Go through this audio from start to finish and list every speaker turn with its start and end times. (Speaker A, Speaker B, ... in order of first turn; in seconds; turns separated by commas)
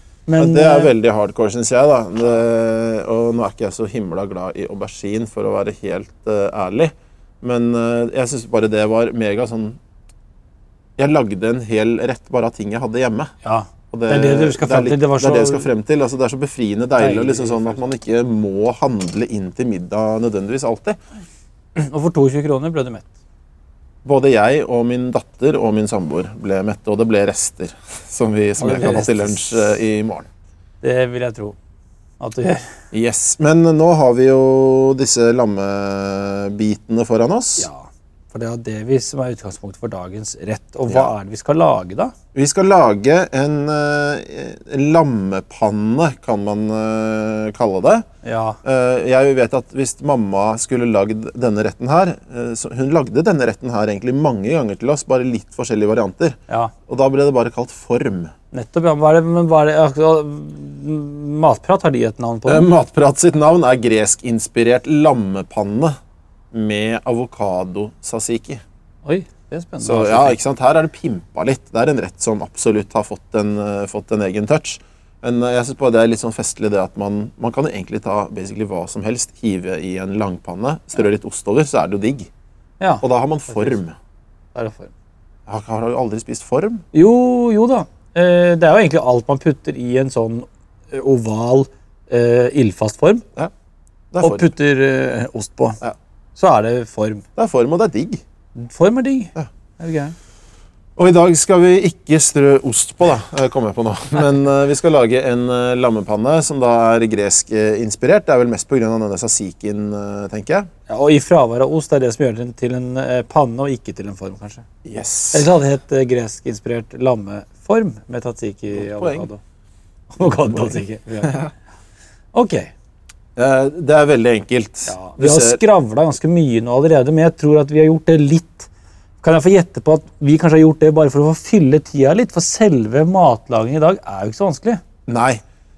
Speaker A: 0.3-0.9, Speaker B: 0.4-9.8, Speaker B: 11.0-13.3, Speaker A: 13.4-15.7, Speaker B: 13.9-21.0, Speaker A: 17.0-17.8, Speaker A: 21.8-23.1, Speaker B: 24.0-30.3, Speaker A: 28.6-29.6, Speaker A: 30.8-31.6, Speaker A: 32.2-32.7, Speaker B: 32.9-37.7, Speaker A: 37.6-42.1, Speaker B: 42.3-48.0, Speaker A: 48.2-48.6, Speaker B: 48.6-58.3, Speaker A: 58.5-62.7, Speaker B: 62.5-66.0, Speaker B: 66.5-68.6, Speaker A: 69.0-70.4, Speaker B: 69.8-82.3, Speaker A: 82.8-83.8, Speaker B: 83.0-84.0, Speaker A: 84.5-84.9, Speaker B: 85.5-86.8, Speaker A: 86.9-93.2, Speaker B: 94.1-94.5, Speaker A: 94.2-95.8, Speaker A: 96.4-97.2, Speaker B: 97.4-98.2, Speaker A: 98.5-100.1, Speaker B: 101.0-110.7, Speaker A: 110.9-114.7, Speaker B: 114.8-115.5, Speaker A: 115.3-119.4, Speaker B: 118.7-119.3, Speaker A: 120.1-121.5, Speaker B: 120.2-121.5, Speaker A: 122.3-122.7, Speaker B: 123.4-125.6, Speaker A: 124.9-128.7, Speaker A: 129.2-134.8, Speaker B: 135.1-135.4